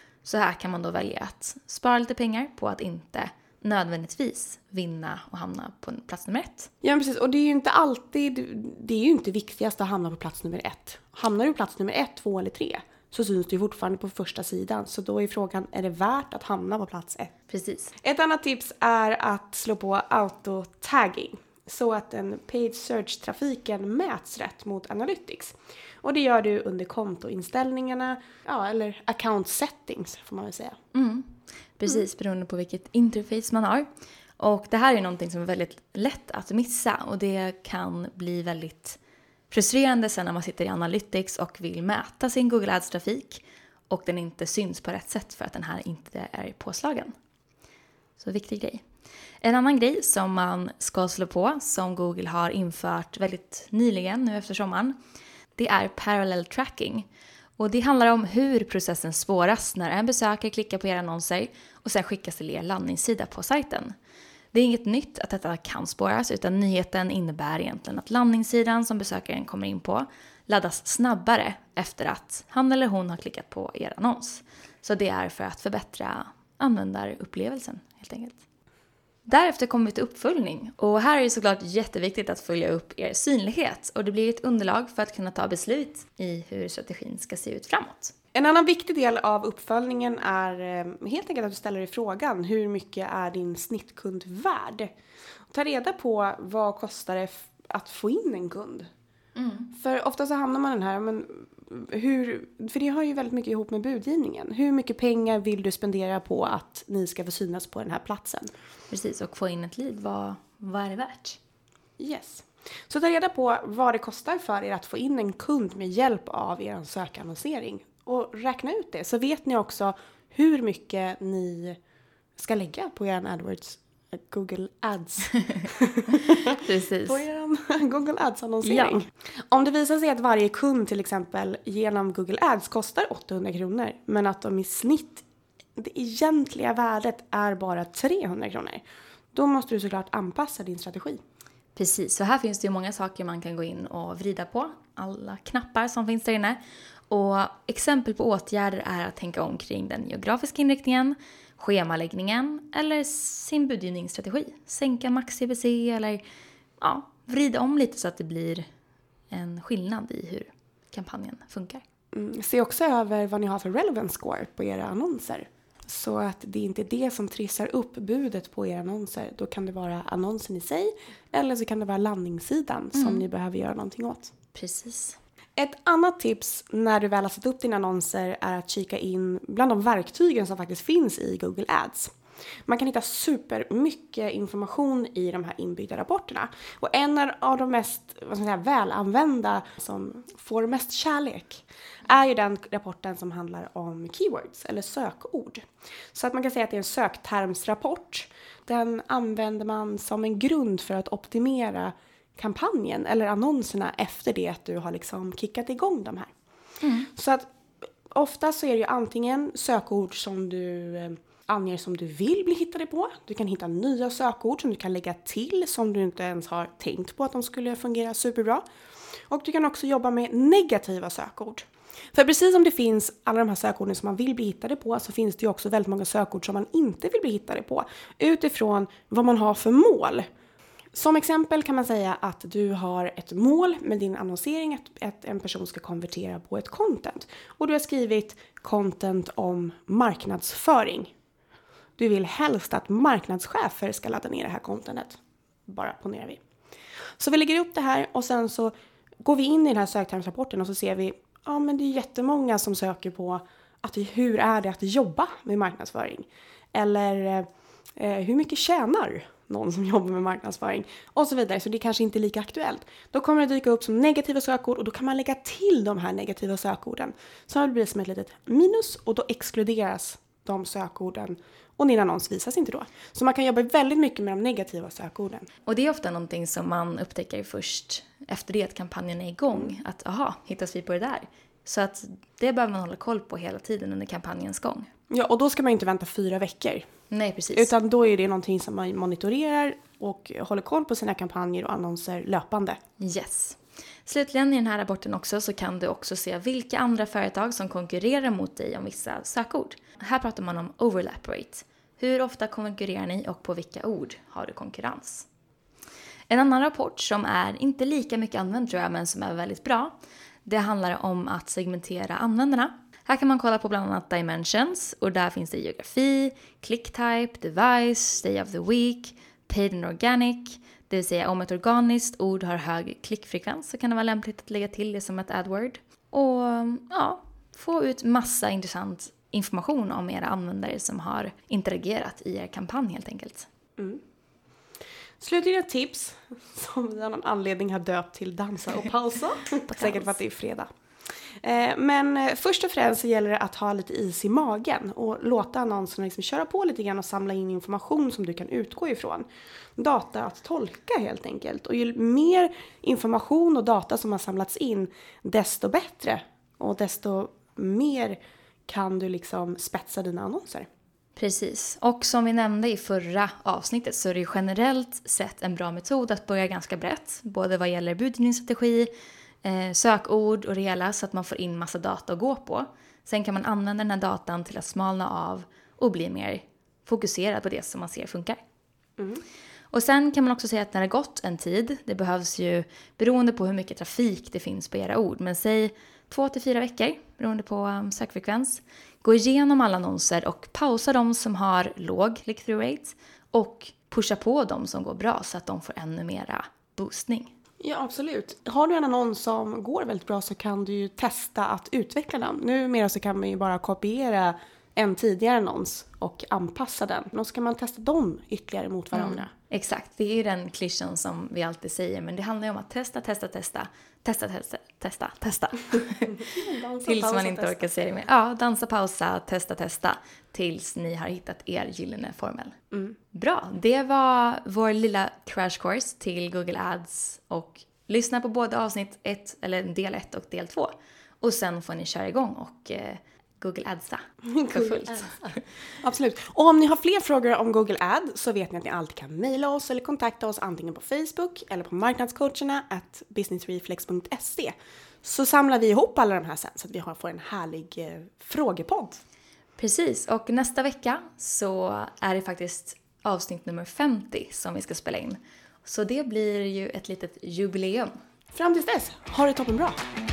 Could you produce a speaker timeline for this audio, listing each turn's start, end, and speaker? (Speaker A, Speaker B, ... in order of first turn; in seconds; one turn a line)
Speaker A: 0.2-6.7
Speaker B: 6.8-17.3
Speaker A: 17.5-17.9
Speaker B: 18.0-30.8
Speaker A: 30.9-33.9
Speaker A: 34.4-39.0
Speaker A: 39.5-47.1
Speaker A: 48.2-48.8
Speaker A: 49.4-55.0
Speaker A: 55.6-57.1
Speaker A: 57.6-63.9
Speaker A: 64.5-78.4
Speaker A: 79.3-88.2
Speaker B: 88.3-94.9
Speaker B: 95.5-98.9
Speaker A: 99.4-99.7
Speaker B: 99.7-108.5
Speaker A: 108.9-111.4
Speaker B: 112.0-121.8
Speaker B: 122.4-135.2
Speaker A: 126.5-127.2
Speaker A: 128.7-129.0
Speaker B: 135.8-141.2
Speaker A: 141.8-146.6
Speaker A: 147.1-156.2
Speaker A: 156.8-158.7
Speaker A: 159.3-161.8
Speaker B: 162.1-174.3
Speaker A: 172.9-173.2
Speaker A: 174.5-175.2
Speaker B: 175.6-182.1
Speaker B: 182.7-206.3
Speaker A: 206.8-207.1
Speaker B: 207.2-207.5
Speaker B: 208.1-218.6
Speaker B: 219.3-230.3
Speaker B: 230.9-241.1
Speaker B: 242.0-246.4
Speaker B: 247.2-275.5
Speaker A: 275.7-284.9
Speaker B: 285.1-286.8
Speaker A: 287.1-287.7
Speaker B: 287.5-292.8
Speaker A: 293.0-305.3
Speaker A: 306.3-333.5
Speaker B: 335.2-340.7
Speaker A: 339.7-340.2
Speaker B: 341.4-360.7
Speaker A: 361.2-368.9
Speaker A: 369.4-378.4
Speaker B: 379.0-379.2
Speaker A: 379.7-397.3
Speaker B: 397.6-409.3
Speaker A: 408.9-416.3
Speaker B: 416.1-417.7
Speaker A: 416.9-422.6
Speaker A: 423.1-435.4
Speaker B: 434.3-435.1
Speaker B: 435.8-449.0
Speaker A: 449.6-457.9
Speaker B: 458.3-459.8